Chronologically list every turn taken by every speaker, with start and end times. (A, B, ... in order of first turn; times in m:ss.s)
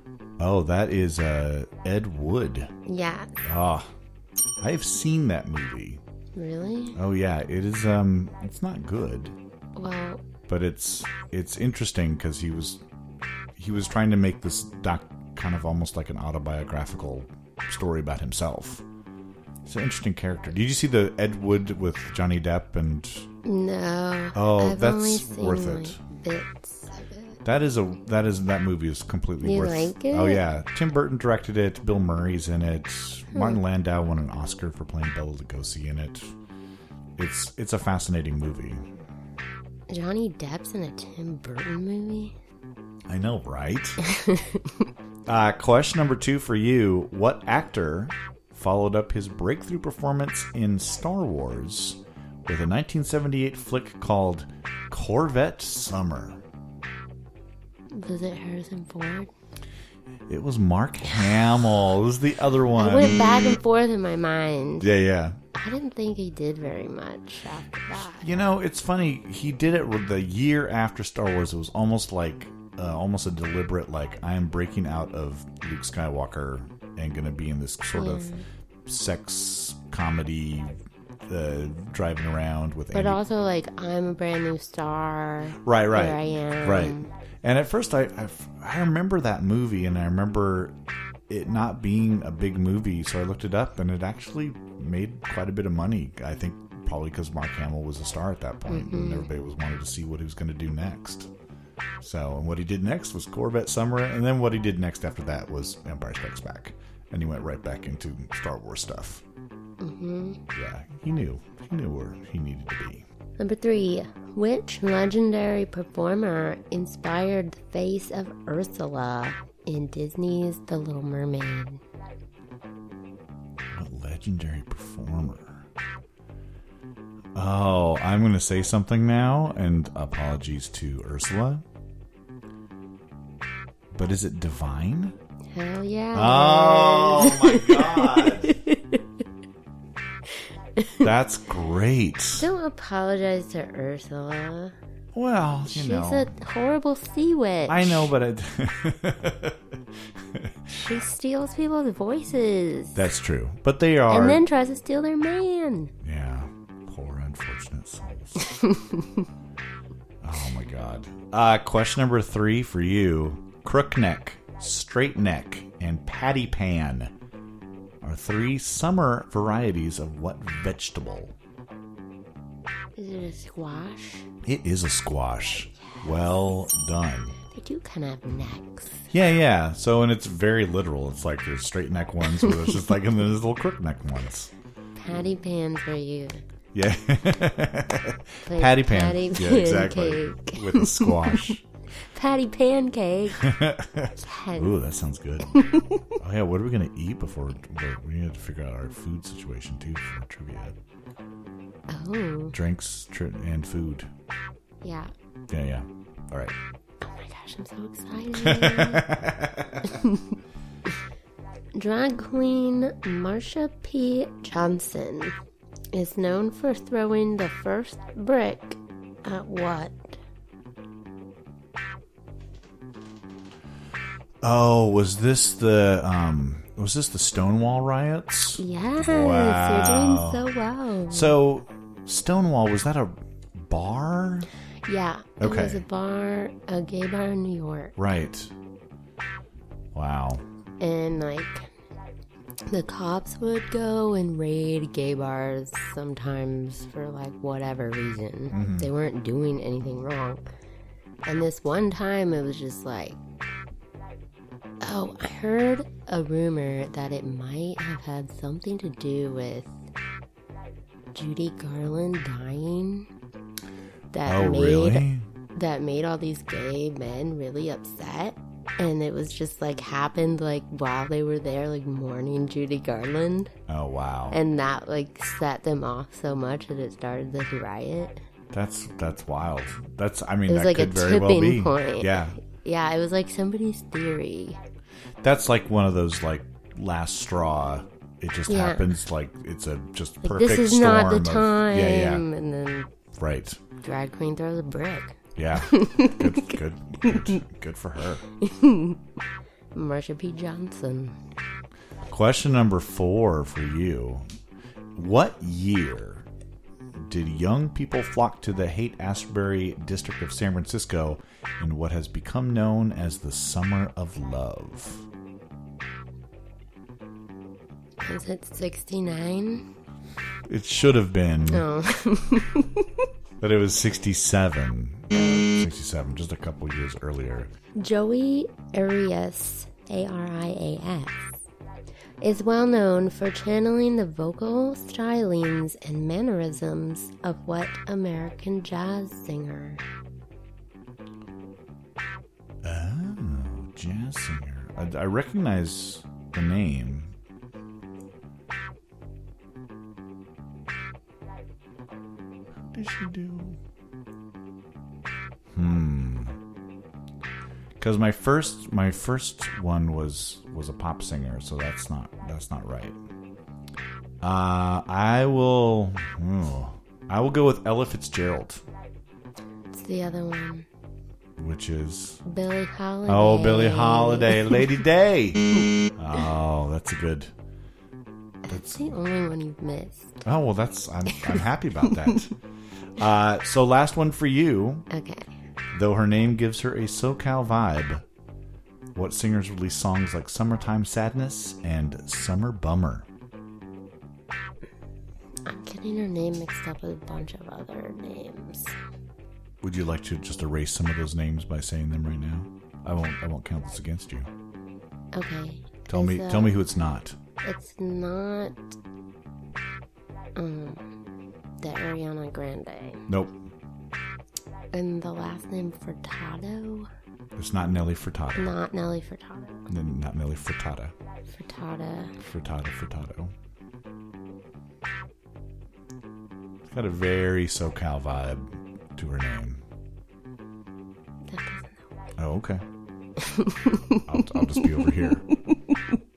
0:00.4-0:02.7 A
0:02.8-0:03.3 B
0:03.4-0:03.9 A
0:04.6-0:06.0 A
0:06.3-0:07.0 B
0:06.9-0:09.4 A
0:09.8-0:10.2 B
0:10.5-0:12.8 A
0:13.6-0:18.8 A
0:19.6-0:23.3 A
0:23.4-0:27.4 B
0:24.3-0:26.0 A
0:27.4-0:36.3 A
0:29.4-0:30.4 B
0:33.3-0:33.6 B
0:37.2-0:38.9 A
0:39.9-0:42.3 B
0:43.1-0:44.0 A
0:44.0-0:44.8 B
0:45.3-0:56.4 A
0:57.9-0:59.3 B
1:00.3-1:03.5 A
1:02.8-1:04.9 B
1:04.8-1:05.4 A
1:05.5-1:08.3 B
1:08.0-1:18.3 A
1:17.9-1:18.4 B
1:18.8-1:23.2 A
1:22.9-1:27.1 B
1:25.6-1:30.7 A
1:31.3-1:41.3 A
1:38.7-1:39.3 B
1:42.0-1:49.2 A
1:49.8-1:50.4 B
1:50.5-1:53.0 A
1:53.4-2:01.8 B
2:03.7-2:05.6 A
2:07.3-2:11.6 A
2:13.9-2:15.2 A
2:15.5-2:19.0 B
2:16.1-2:18.6 A
2:20.8-2:21.1 B
2:21.0-2:22.5 A
2:22.3-2:24.8 B
2:25.1-2:26.3 A
2:25.6-2:28.1 B
2:27.7-2:29.6 A
2:30.3-2:30.8 A
2:30.7-2:33.1 B
2:32.9-2:34.4 A
2:34.1-2:35.9 B
2:36.0-2:38.4 A
2:38.4-2:39.3 B
2:40.2-2:47.1 A
2:48.0-2:51.3 A
2:52.9-2:54.3 B
2:54.4-2:57.4 A
2:56.0-2:56.3 B
2:57.4-2:59.1 B
2:59.1-3:04.5 A
3:05.0-3:06.4 B
3:06.7-3:11.6 A
3:08.4-3:13.5 B
3:13.4-3:15.6 A
3:14.2-3:14.8 B
3:15.5-3:16.1 B
3:16.1-3:20.7 A
3:21.9-3:22.6 B
3:22.5-3:24.1 A
3:24.8-3:25.1 B
3:25.5-3:26.5 A
3:27.0-3:29.0 B
3:28.4-3:29.9 A
3:29.8-3:30.3 B
3:31.7-3:35.4 B
3:35.9-3:40.2 B
3:44.4-3:50.4 A
3:48.6-3:51.3 B
3:51.1-3:54.5 A
3:54.8-3:58.0 B
3:55.4-3:55.8 A
3:58.0-3:58.5 A
3:59.9-4:00.4 A
4:00.8-4:01.7 B
4:02.7-4:10.5 B
4:08.5-4:08.9 A
4:11.2-4:13.2 B
4:14.8-4:19.7 B
4:21.1-4:23.1 B
4:24.1-4:33.5 B
4:24.2-4:25.2 A
4:33.7-4:34.4 A
4:34.3-4:38.2 B
4:38.5-4:42.4 A
4:40.5-4:44.6 B
4:45.2-4:52.2 A
4:48.5-4:48.9 B
4:50.2-4:52.9 B
4:53.2-4:53.6 A
4:53.8-4:57.4 B
4:55.4-4:58.2 A
4:58.4-4:59.0 B
4:59.7-5:01.2 B
5:02.1-5:04.2 A
5:05.0-5:06.3 A
5:07.0-5:15.0 A
5:18.0-5:19.7 B
5:20.5-5:21.6 A
5:21.5-5:23.1 B
5:23.4-5:27.5 A
5:25.1-5:25.5 B
5:27.7-5:31.4 B
5:32.2-5:39.8 B
5:42.6-5:47.1 A
5:52.7-5:53.6 A
5:55.5-5:56.4 A
5:57.8-6:03.0 A
6:04.2-6:08.6 A
6:09.7-6:10.7 B
6:11.4-6:12.2 A
6:12.2-6:14.8 B
6:13.1-6:17.3 A
6:18.4-6:20.2 B
6:18.5-6:18.8 A
6:20.2-6:22.3 A
6:21.1-6:22.2 B
6:23.0-6:24.8 A
6:24.9-6:25.4 B
6:25.7-6:28.0 A
6:28.9-6:33.1 A
6:35.4-6:38.8 B
6:39.6-6:44.3 A
6:45.1-6:46.6 B
6:45.9-6:47.2 A
6:47.4-6:48.7 B
6:50.4-6:50.9 B
6:51.6-6:53.0 B
6:53.1-6:53.4 A
6:54.7-6:56.9 B
6:57.4-6:58.5 A
6:58.3-6:59.7 B
6:59.7-7:00.9 A
7:01.3-7:02.2 B
7:02.2-7:03.3 A
7:06.7-7:09.6 A
7:11.3-7:11.9 B
7:12.2-7:12.6 A
7:13.2-7:15.7 B
7:14.0-7:15.3 A